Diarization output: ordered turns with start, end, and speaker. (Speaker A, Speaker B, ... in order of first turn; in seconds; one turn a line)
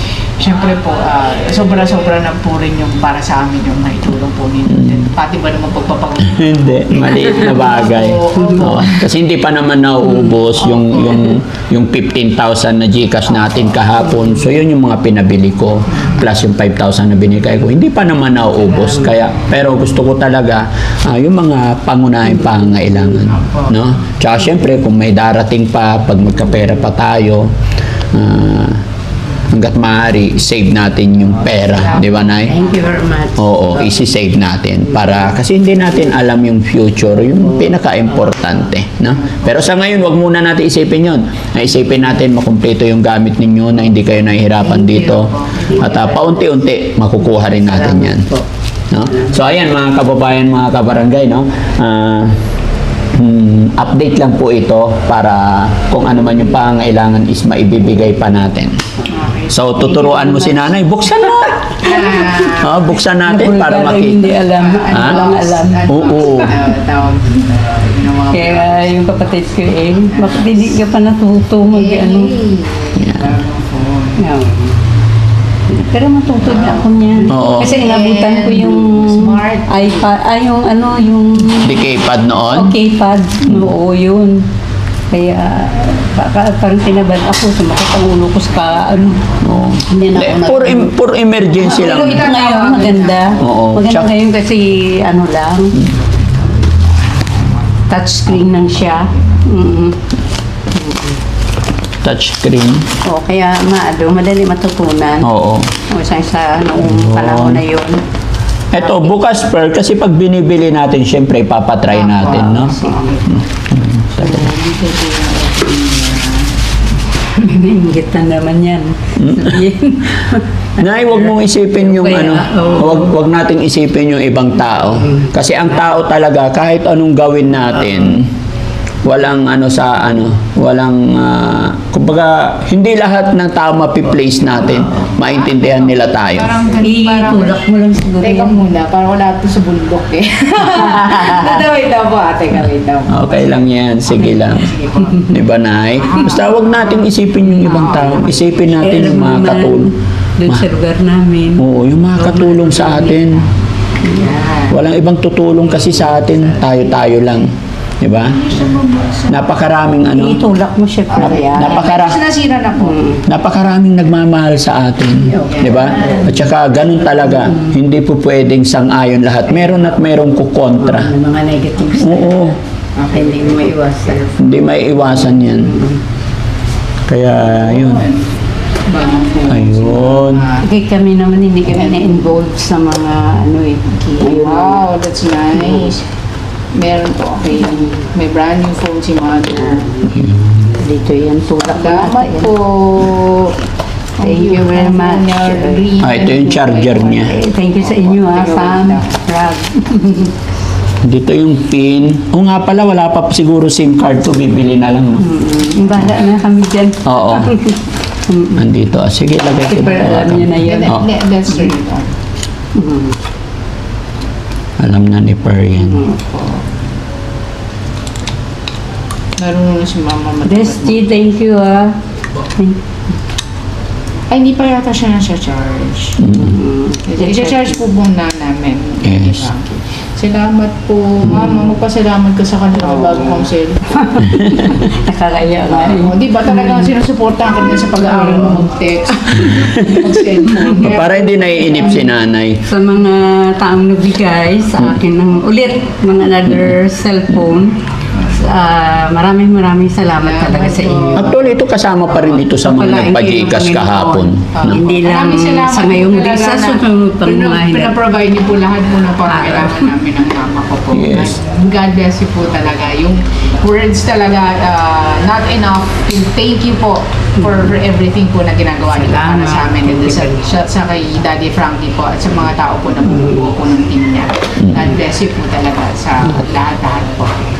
Speaker A: 0.4-9.0
Speaker B: 4.7-5.1
Speaker B: 6.2-27.5
Speaker C: 8.5-8.8
Speaker A: 10.6-11.3
Speaker A: 15.9-16.3
Speaker C: 18.6-19.2
Speaker A: 23.1-23.8
Speaker B: 28.1-28.8
Speaker B: 29.5-32.6
Speaker A: 31.7-32.8
Speaker C: 32.3-33.7
Speaker B: 33.4-48.3
Speaker A: 39.2-39.9
Speaker A: 44.7-46.1
Speaker C: 45.5-46.2
Speaker C: 47.6-48.4
Speaker B: 48.9-52.4
Speaker B: 53.1-58.7
Speaker A: 59.1-60.6
Speaker B: 59.5-61.9
Speaker A: 61.8-63.0
Speaker B: 62.6-64.3
Speaker C: 63.2-66.0
Speaker A: 64.3-69.1
Speaker B: 64.9-65.2
Speaker B: 65.9-66.5
Speaker C: 68.3-72.3
Speaker A: 70.1-70.6
Speaker A: 71.7-74.3
Speaker B: 73.0-73.2
Speaker C: 74.2-74.7
Speaker C: 75.7-81.8
Speaker A: 76.4-80.1
Speaker B: 77.3-77.7
Speaker B: 81.5-82.7
Speaker C: 82.5-84.4
Speaker C: 85.1-89.2
Speaker A: 88.6-89.4
Speaker B: 89.4-92.3
Speaker C: 89.7-90.9
Speaker A: 91.5-93.5
Speaker C: 91.7-95.8
Speaker B: 93.4-94.1
Speaker A: 96.0-97.4
Speaker C: 97.9-100.0
Speaker C: 100.7-101.2
Speaker B: 102.0-102.9
Speaker C: 103.0-105.3
Speaker B: 105.2-105.7
Speaker C: 105.9-108.0
Speaker B: 106.8-107.6
Speaker B: 108.7-114.5
Speaker C: 108.8-109.1
Speaker A: 111.9-113.3
Speaker C: 112.6-113.2
Speaker C: 114.2-114.9
Speaker A: 114.5-116.5
Speaker C: 117.3-123.1
Speaker B: 119.2-119.6
Speaker B: 120.8-128.3
Speaker B: 129.0-136.6
Speaker A: 134.8-137.6
Speaker C: 136.8-138.6
Speaker A: 138.2-145.3
Speaker C: 141.0-141.5
Speaker B: 143.1-144.7
Speaker B: 145.2-149.9
Speaker A: 145.9-148.8
Speaker C: 148.8-151.6
Speaker B: 151.6-153.4
Speaker C: 152.2-153.1
Speaker A: 152.5-153.2
Speaker A: 154.0-154.8
Speaker B: 154.7-158.4
Speaker A: 155.7-157.0
Speaker A: 158.2-159.6
Speaker B: 159.3-160.4
Speaker C: 160.1-162.0
Speaker A: 161.1-163.0
Speaker B: 161.2-162.2
Speaker C: 162.8-163.2
Speaker B: 163.2-171.1
Speaker C: 165.2-166.4
Speaker A: 165.4-167.5
Speaker C: 170.8-172.5
Speaker B: 171.9-172.6
Speaker A: 172.9-174.6
Speaker C: 173.1-174.2
Speaker B: 174.4-175.7
Speaker C: 175.0-176.0
Speaker B: 177.1-178.1
Speaker A: 177.4-178.2
Speaker A: 178.9-180.7
Speaker B: 179.5-180.5
Speaker C: 180.6-184.8
Speaker A: 181.8-182.2
Speaker A: 184.0-186.0
Speaker C: 185.6-185.9
Speaker A: 186.7-190.1
Speaker C: 187.5-188.0
Speaker B: 190.1-190.7
Speaker C: 190.8-192.5
Speaker A: 191.7-193.6
Speaker A: 194.2-199.2
Speaker C: 194.2-195.8
Speaker B: 196.0-197.3
Speaker C: 197.1-200.3
Speaker B: 201.0-205.3
Speaker C: 205.2-208.6
Speaker B: 207.0-207.6
Speaker B: 208.5-211.0
Speaker C: 209.7-211.0
Speaker A: 210.6-212.1
Speaker C: 212.7-213.2
Speaker B: 214.8-216.0
Speaker C: 215.7-216.4
Speaker A: 219.4-221.1
Speaker C: 220.4-222.0
Speaker A: 224.3-226.3
Speaker B: 226.2-226.6
Speaker C: 226.3-227.6
Speaker A: 227.1-234.2
Speaker B: 229.0-229.4
Speaker C: 232.9-233.4
Speaker C: 233.9-236.8
Speaker B: 234.2-234.7
Speaker A: 235.8-242.1
Speaker C: 238.1-238.6
Speaker B: 239.4-240.1
Speaker B: 240.8-242.7
Speaker C: 242.7-247.8
Speaker C: 248.3-251.3
Speaker A: 250.2-251.5
Speaker B: 251.1-254.8
Speaker C: 252.3-257.9
Speaker A: 254.5-277.5
Speaker C: 259.3-259.9
Speaker B: 260.9-261.3
Speaker C: 268.9-270.4
Speaker C: 273.1-273.5